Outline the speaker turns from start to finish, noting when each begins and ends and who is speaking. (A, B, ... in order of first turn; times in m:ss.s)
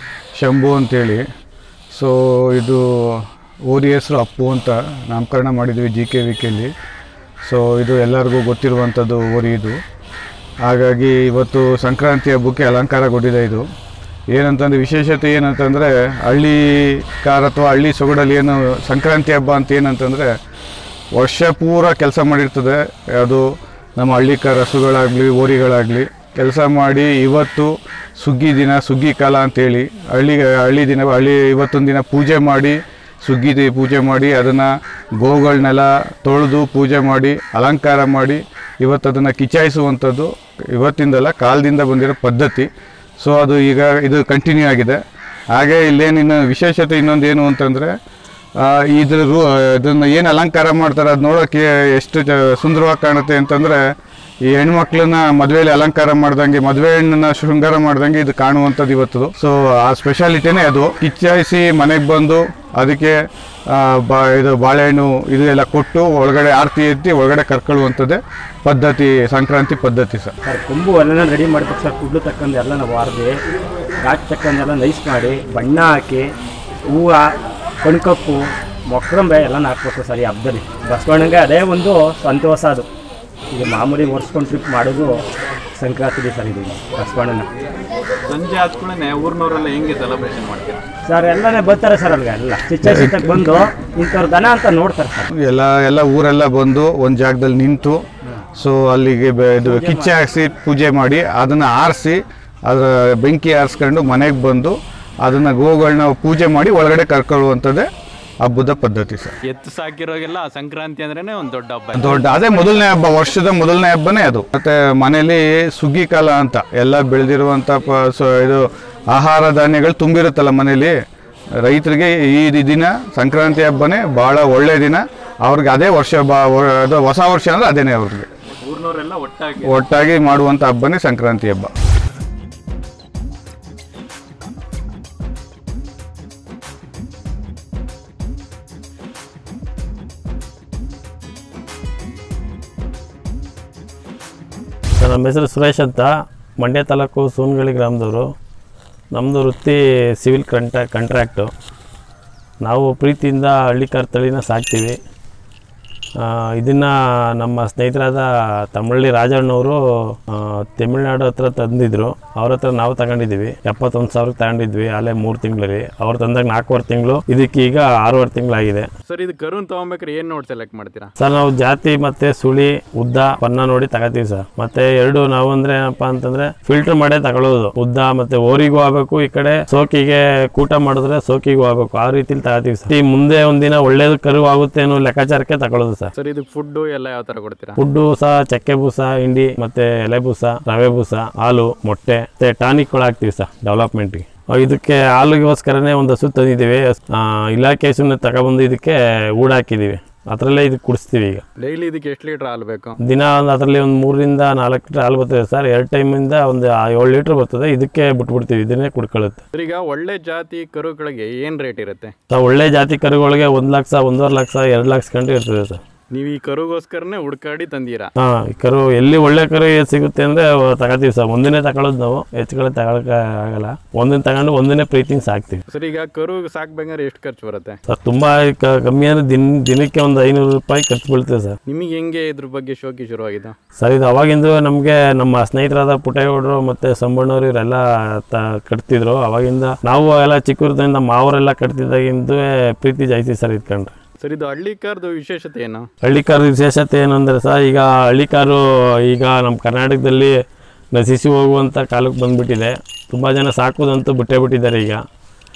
0:00.3-0:01.3 A
0:01.9-0:06.7 A
0:07.4-0:09.8 A
0:10.6-0:13.6 A
0:14.3-0:20.3 A
0:21.1-0:45.0 A
0:45.5-0:47.9 A
0:48.6-0:53.9 A
0:54.4-1:03.2 A
1:03.7-1:10.3 A
1:10.4-1:13.4 B
1:14.0-1:16.3 B
1:16.9-1:22.9 B
1:23.5-1:25.1 B
1:25.8-1:27.5 B
1:28.3-1:30.8 C
1:31.1-1:35.3 B
1:32.8-1:33.4 A
1:35.3-1:38.0 A
1:38.6-1:47.9 A
1:39.6-1:40.1 B
1:48.4-1:49.3 A
1:49.5-1:52.2 C
1:52.0-2:01.0 A
2:01.6-2:08.3 A
2:08.5-2:09.8 C
2:09.6-2:11.7 A
2:25.0-2:28.3 D
2:29.2-2:31.5 D
2:32.6-2:35.0 D
2:36.2-2:48.9 D
2:49.1-2:51.1 C
2:51.2-3:06.1 D
3:06.1-3:07.8 C
3:07.8-3:21.4 D
3:21.6-3:23.0 C
3:23.0-3:29.4 D
3:29.5-3:32.1 C
3:32.3-3:35.8 D
3:36.1-3:38.1 C
3:38.2-3:45.6 D
3:45.7-3:47.8 C
3:47.9-3:51.6 D
3:51.7-3:53.6 C
3:53.8-4:03.9 D
4:04.2-4:05.9 C
4:06.0-4:10.4 D
4:11.0-4:15.0 D